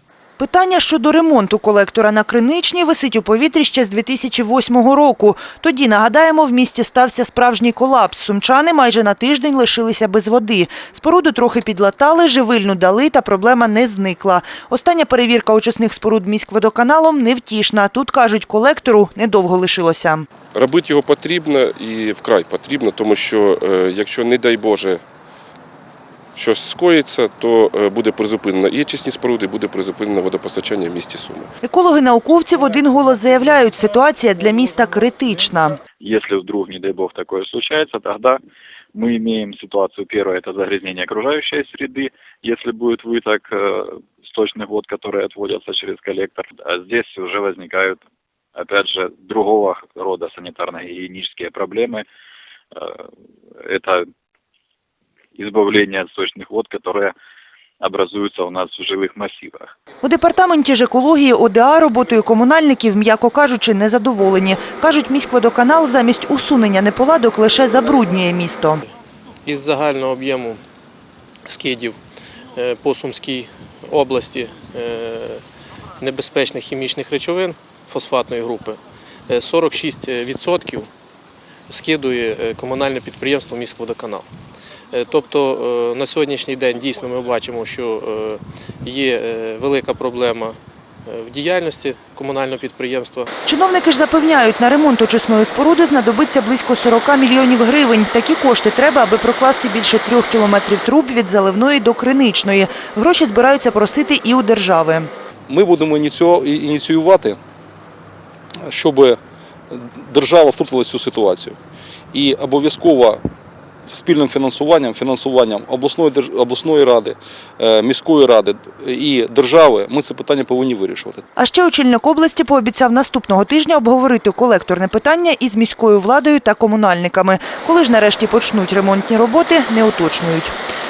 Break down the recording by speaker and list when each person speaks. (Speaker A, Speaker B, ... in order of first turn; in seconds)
Speaker A: 0.4-20.3, 31.6-35.8, 60.0-68.8, 93.5-105.1, 121.4-130.5
Speaker B: 20.5-25.0, 26.4-31.5
Speaker C: 36.0-38.4, 39.0-48.0, 48.6-52.0, 52.7-53.0, 53.6-54.0, 55.4-57.1, 57.8-59.7
Speaker D: 69.5-70.6, 71.5-72.0, 72.5-75.4, 76.0-80.9, 81.7-84.3, 84.9-93.3
Speaker E: 105.5-107.4, 108.6-109.2, 109.7-111.6, 112.1-113.2, 113.9-121.2